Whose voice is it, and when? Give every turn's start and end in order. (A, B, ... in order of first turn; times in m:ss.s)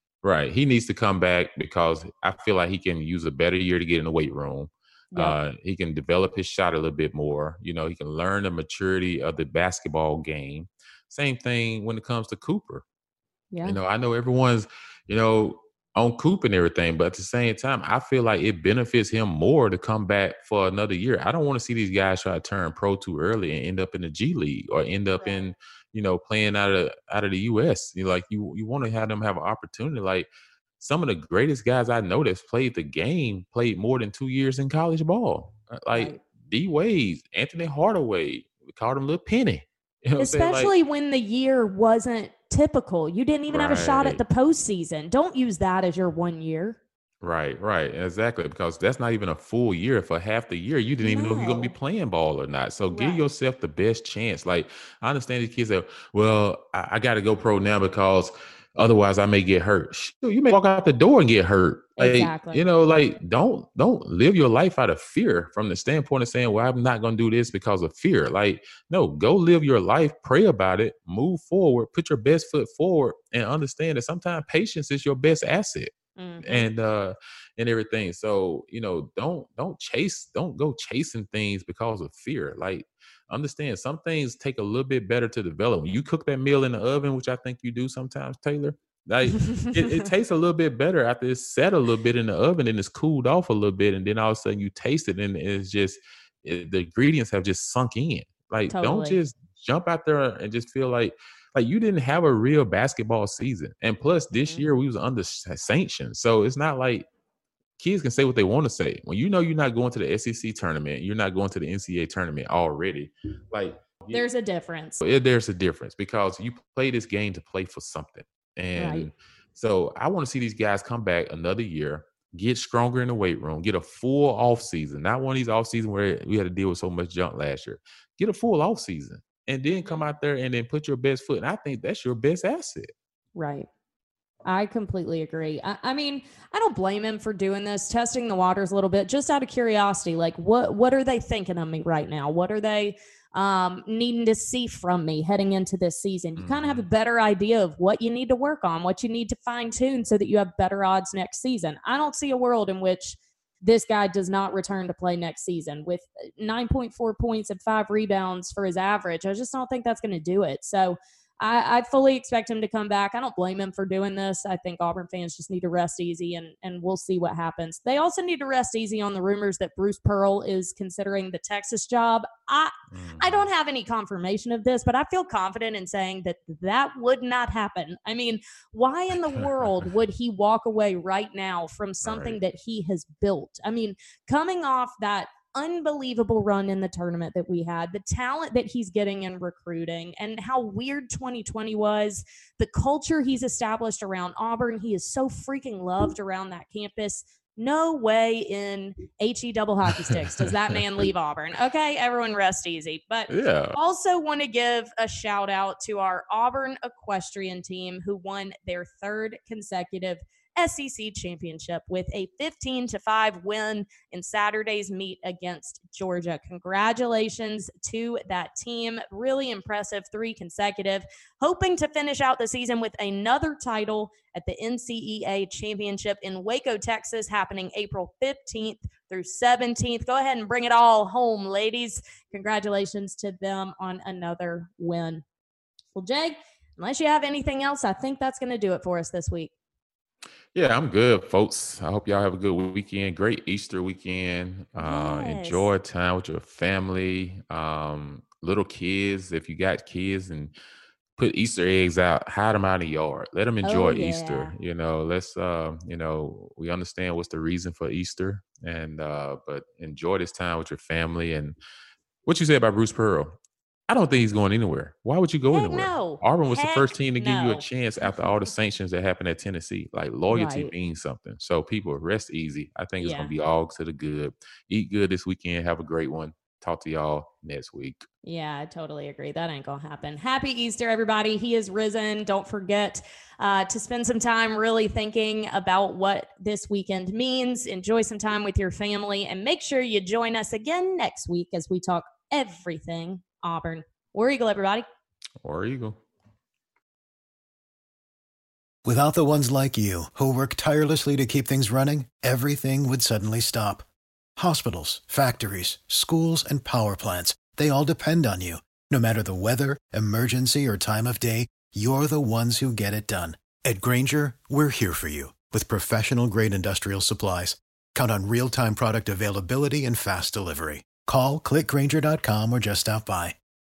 0:00.2-0:12.8 A
0:13.5-0:13.8 B
0:13.6-0:40.7 A
0:25.2-0:25.4 B
0:35.9-0:36.2 B
0:40.2-0:46.8 B
0:43.5-0:44.2 A
0:47.2-1:47.1 A
0:51.0-0:51.7 B
0:52.9-0:53.2 B
1:02.0-1:02.6 B
1:16.2-1:16.7 B
1:29.3-1:29.7 B
1:38.7-1:39.2 B
1:44.4-1:44.7 B
1:47.8-1:54.2 A
1:54.1-1:55.0 B
1:55.0-2:12.9 A
1:58.7-1:59.1 B
2:09.7-2:10.0 B
2:13.4-2:13.7 B
2:14.4-3:55.2 B
2:26.4-2:26.9 A
2:52.9-2:53.5 A
3:02.0-3:02.4 A
3:20.0-3:20.8 A
3:23.3-3:23.8 A
3:55.9-3:59.5 B
4:00.5-4:10.5 A
4:04.8-4:05.7 B
4:11.2-4:21.6 A
4:13.6-4:14.5 B
4:22.2-4:23.4 A
4:23.9-4:38.0 A
4:25.5-4:27.6 B
4:30.3-4:30.7 B
4:33.0-4:33.3 B
4:38.2-4:54.8 B
4:55.4-4:56.0 A
4:58.8-5:03.8 C
5:04.4-5:23.4 C